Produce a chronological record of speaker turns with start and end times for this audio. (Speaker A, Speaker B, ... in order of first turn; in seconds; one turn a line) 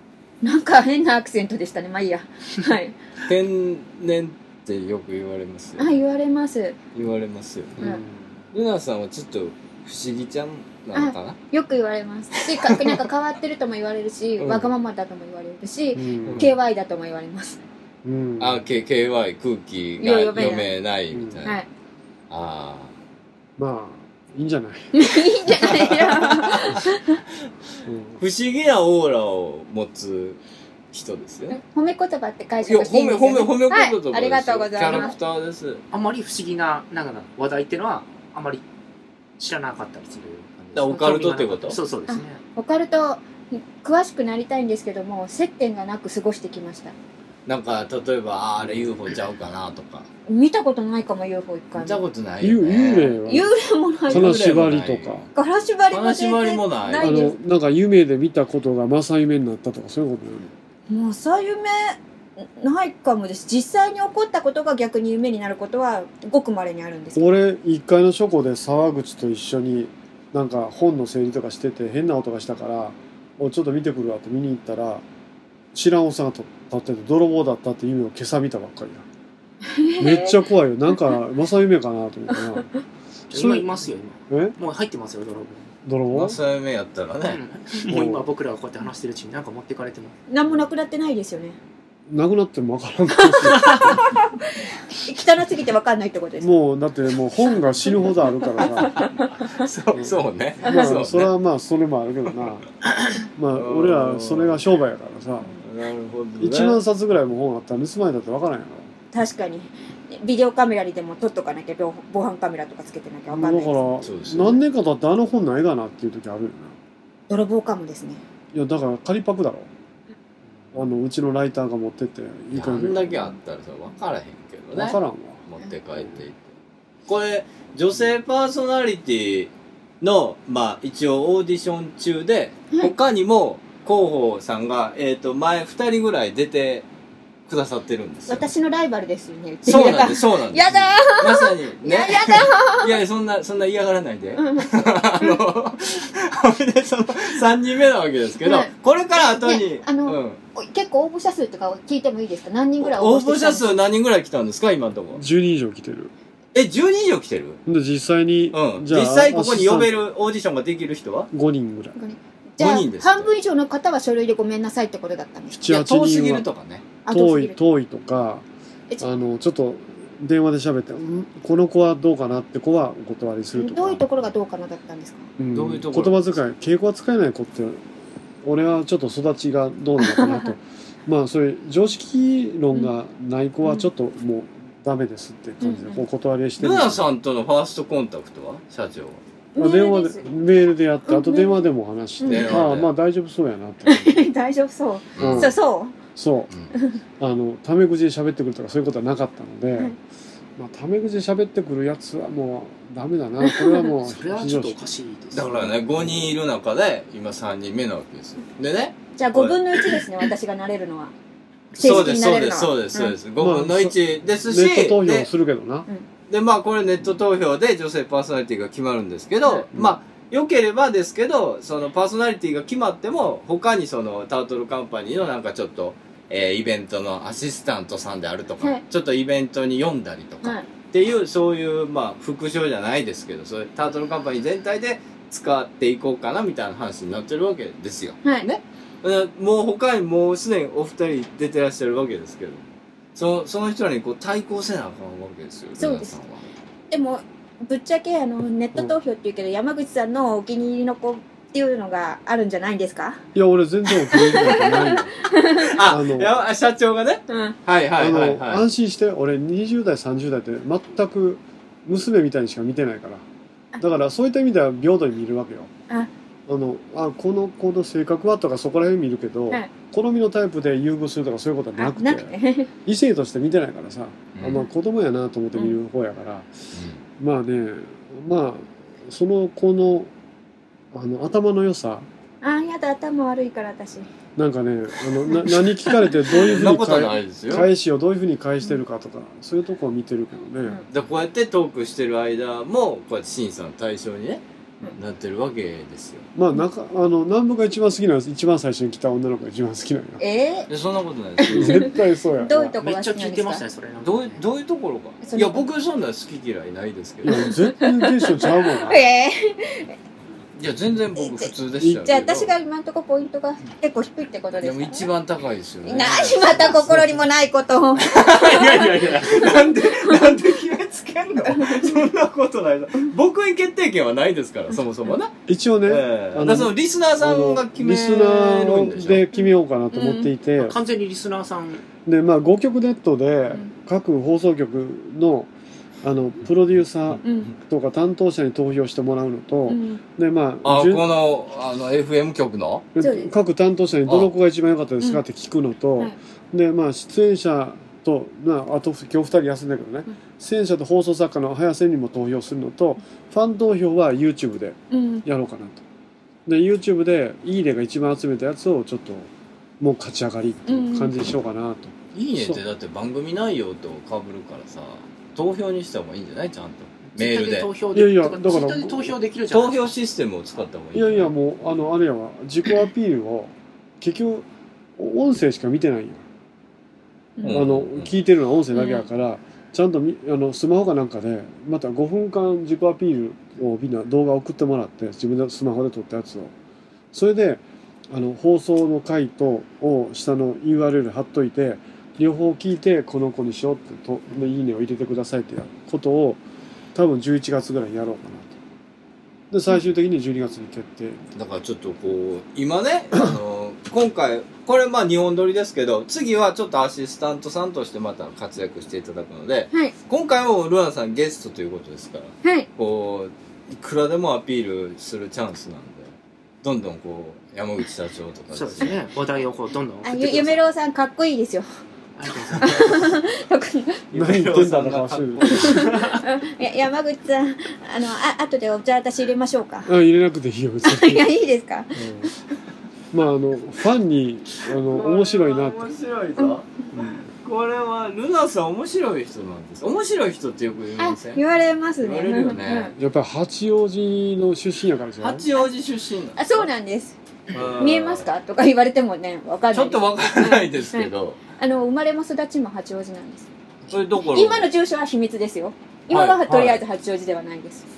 Speaker A: 0.4-2.9
Speaker B: 3.2-6.0
Speaker A: 5.8-6.8
Speaker B: 6.9-7.8
Speaker C: 7.8-8.3
Speaker B: 8.5-11.4
Speaker A: 10.9-17.6
Speaker B: 12.7-12.9
Speaker B: 14.4-14.7
Speaker C: 15.9-16.5
Speaker B: 16.2-16.5
Speaker C: 18.0-18.6
Speaker B: 18.4-21.6
Speaker A: 20.0-20.7
Speaker C: 21.1-21.4
Speaker B: 22.3-22.9
Speaker C: 23.6-25.0
Speaker A: 24.9-27.2
Speaker B: 25.8-26.9
Speaker C: 27.8-28.2
Speaker B: 28.2-30.4
Speaker B: 30.9-31.6
Speaker A: 31.5-35.1
Speaker B: 32.6-35.8
Speaker D: 35.9-38.6
Speaker D: 39.4-42.4
Speaker B: 40.7-41.8
Speaker A: 42.1-46.9
Speaker B: 47.5-50.1
Speaker A: 50.3-52.0
Speaker B: 51.8-53.2
Speaker C: 52.4-53.5
Speaker A: 53.2-54.4
Speaker C: 54.1-55.2
Speaker B: 54.1-55.3
Speaker A: 55.3-57.3
Speaker B: 55.9-57.2
Speaker C: 57.0-60.5
Speaker A: 60.9-67.2
Speaker C: 67.1-75.0
Speaker C: 75.7-79.0
Speaker A: 79.7-80.4
Speaker C: 80.0-82.7
Speaker C: 83.3-83.8
Speaker D: 83.3-85.7
Speaker C: 84.3-84.5
Speaker C: 85.8-86.4
Speaker B: 86.1-87.4
Speaker D: 87.2-90.2
Speaker C: 87.9-88.2
Speaker A: 90.3-91.5
Speaker C: 92.1-94.0
Speaker A: 93.2-96.5
Speaker C: 96.4-99.1
Speaker A: 98.1-99.5
Speaker B: 99.0-101.3
Speaker C: 99.9-102.7
Speaker A: 100.6-100.9
Speaker C: 103.3-105.5
Speaker B: 103.5-104.7
Speaker B: 105.6-106.8
Speaker C: 106.4-108.9
Speaker A: 109.1-113.9
Speaker C: 113.3-116.7
Speaker B: 114.0-114.6
Speaker A: 117.3-118.2
Speaker C: 118.5-119.7
Speaker C: 120.7-123.4
Speaker B: 122.5-126.5
Speaker C: 124.7-125.4
Speaker B: 127.1-136.9
Speaker B: 137.5-138.5
Speaker A: 138.3-143.0
Speaker B: 139.6-150.4
Speaker A: 144.4-145.4
Speaker A: 148.4-153.8
Speaker B: 152.8-155.2
Speaker C: 155.1-156.1
Speaker B: 156.5-157.6
Speaker C: 157.7-160.0
Speaker B: 158.5-161.3
Speaker C: 161.3-162.0
Speaker A: 161.9-165.6
Speaker B: 162.6-163.3
Speaker C: 165.5-166.5
Speaker B: 165.6-166.8
Speaker A: 167.1-167.6
Speaker C: 167.1-168.4
Speaker C: 169.0-174.1
Speaker A: 173.5-175.3
Speaker C: 175.4-177.8
Speaker B: 175.5-176.4
Speaker C: 178.4-187.1
Speaker A: 180.1-180.5
Speaker A: 185.6-186.1
Speaker B: 186.6-189.2
Speaker A: 189.5-190.3
Speaker C: 189.6-194.3
Speaker A: 191.1-191.7
Speaker A: 192.2-192.6
Speaker B: 192.2-192.9
Speaker A: 193.8-196.0
Speaker B: 195.2-195.5
Speaker C: 195.2-195.6
Speaker C: 196.2-196.5
Speaker C: 197.2-199.9
Speaker C: 200.6-204.8
Speaker A: 203.4-203.9
Speaker D: 204.0-205.7
Speaker B: 205.3-209.6
Speaker C: 205.7-206.3
Speaker A: 209.2-211.1
Speaker B: 211.7-215.3
Speaker A: 211.7-213.2
Speaker C: 213.4-215.9
Speaker B: 216.3-246.5
Speaker A: 245.8-246.1
Speaker A: 246.9-253.2
Speaker C: 253.3-256.4
Speaker A: 254.1-255.7
Speaker B: 255.6-258.7
Speaker A: 257.3-257.6
Speaker C: 257.9-263.2
Speaker C: 263.8-265.7
Speaker C: 266.5-276.5
Speaker A: 271.8-272.7
Speaker B: 274.3-274.7
Speaker B: 276.7-277.0
Speaker C: 277.2-280.1
Speaker C: 280.9-282.1
Speaker A: 282.4-284.1
Speaker C: 284.4-290.8
Speaker A: 285.3-285.6
Speaker B: 286.3-287.7
Speaker B: 290.9-294.4
Speaker B: 294.9-296.3
Speaker C: 296.3-300.2
Speaker A: 300.2-300.7
Speaker B: 300.7-301.9
Speaker A: 301.4-303.6
Speaker C: 301.5-302.8
Speaker D: 302.8-304.4
Speaker B: 304.0-307.5
Speaker A: 305.2-305.7
Speaker C: 307.2-309.0
Speaker A: 307.2-309.9
Speaker B: 310.6-312.5
Speaker A: 311.1-315.1
Speaker C: 311.8-312.2
Speaker B: 314.6-316.9
Speaker A: 315.9-320.2
Speaker C: 316.6-317.1
Speaker B: 318.1-325.3
Speaker D: 318.2-319.5
Speaker A: 321.4-322.0
Speaker C: 325.5-330.8
Speaker B: 325.9-329.3
Speaker A: 329.3-330.3
Speaker D: 330.6-331.9
Speaker C: 332.1-335.5
Speaker C: 336.0-341.1
Speaker A: 337.2-337.5
Speaker A: 339.7-340.0
Speaker B: 340.6-342.9
Speaker C: 342.9-355.8
Speaker A: 343.0-343.3
Speaker A: 354.9-355.2
Speaker C: 356.4-362.6
Speaker A: 360.7-361.1
Speaker B: 362.1-367.7
Speaker D: 367.1-369.9
Speaker C: 367.9-369.1
Speaker B: 369.5-371.3
Speaker C: 370.9-374.4
Speaker C: 375.0-376.2
Speaker B: 377.4-378.1
Speaker C: 377.5-386.5
Speaker A: 378.7-379.1
Speaker C: 387.1-396.4
Speaker C: 396.9-398.5
Speaker C: 399.5-401.2
Speaker B: 401.3-416.1
Speaker A: 412.4-412.7
Speaker B: 416.6-419.0
Speaker D: 418.5-420.6
Speaker A: 420.0-421.7
Speaker D: 422.2-423.1
Speaker A: 422.6-424.0
Speaker B: 424.1-426.2
Speaker C: 424.1-425.9
Speaker A: 425.6-429.9
Speaker C: 429.9-431.3
Speaker A: 430.8-432.3
Speaker C: 431.9-432.3
Speaker C: 433.1-435.9
Speaker B: 434.8-441.4
Speaker A: 441.0-442.9
Speaker B: 442.0-442.9
Speaker C: 442.9-445.5
Speaker B: 445.2-446.7
Speaker A: 446.4-457.8
Speaker B: 447.5-448.3
Speaker B: 449.7-451.4
Speaker B: 453.9-454.7
Speaker B: 456.1-456.8